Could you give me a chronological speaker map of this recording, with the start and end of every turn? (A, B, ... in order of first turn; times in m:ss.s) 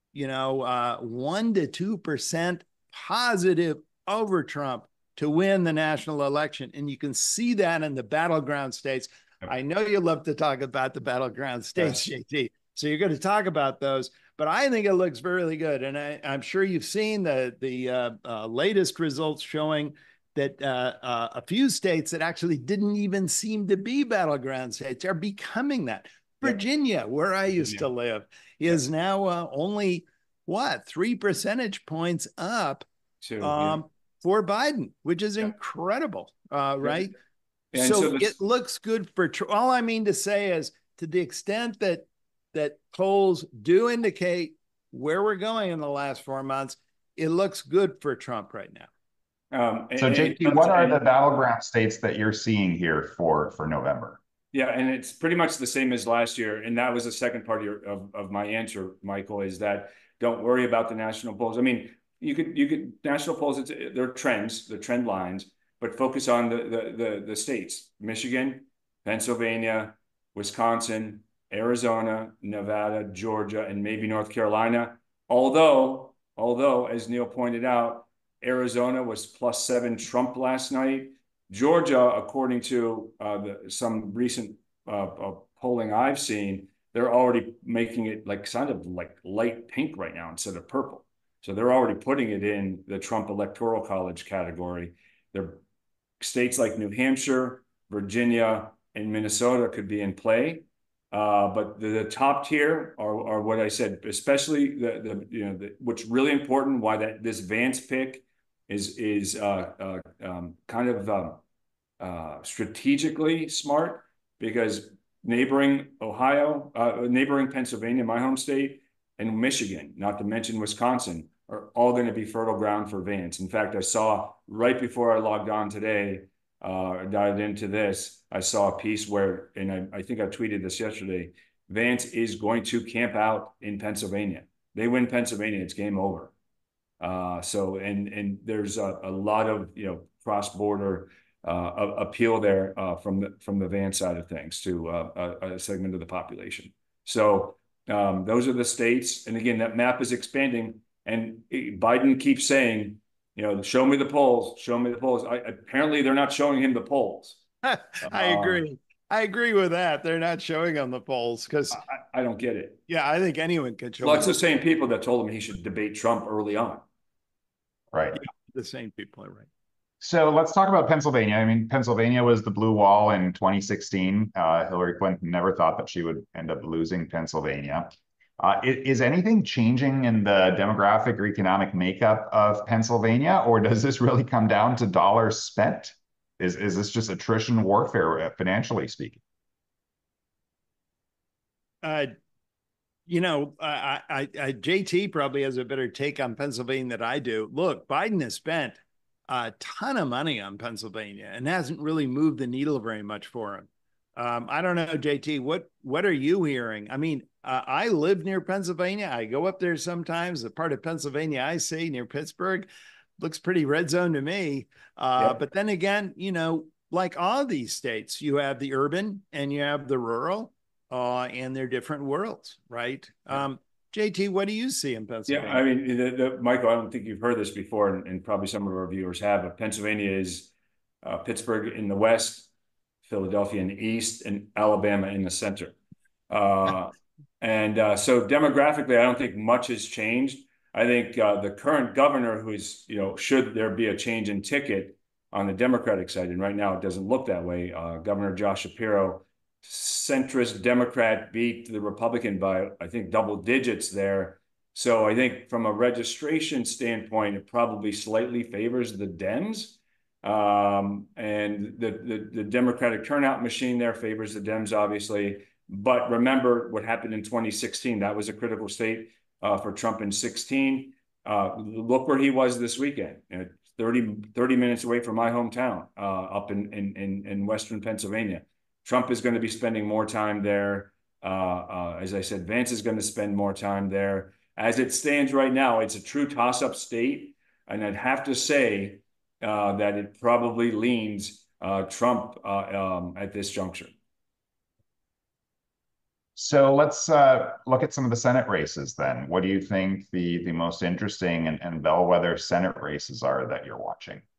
0:00.1-0:32.8 A
0:27.5-0:27.8 B
0:33.2-0:33.8 B
0:33.4-0:37.1 A
0:37.7-0:38.4 B
0:37.7-0:48.9 A
0:49.5-0:51.0 B
0:50.0-0:54.2 C
0:54.5-1:35.6 B
1:36.2-1:51.4 B
1:52.0-2:16.3 B
2:17.0-2:37.4 B
2:37.6-2:41.8 A
2:38.0-2:38.6 B
2:41.7-2:42.8 B
2:42.9-2:44.4 A
2:44.0-2:46.8 B
2:47.9-2:48.2 C
2:48.1-2:49.5 A
2:50.0-3:09.2 C
3:11.8-3:12.1 A
3:13.1-3:32.7 A
3:33.2-3:45.6 A
3:45.3-3:50.5 B
3:51.0-3:52.5 B
3:53.0-3:55.8 B
3:56.3-4:53.9 B
4:56.4-5:04.2 C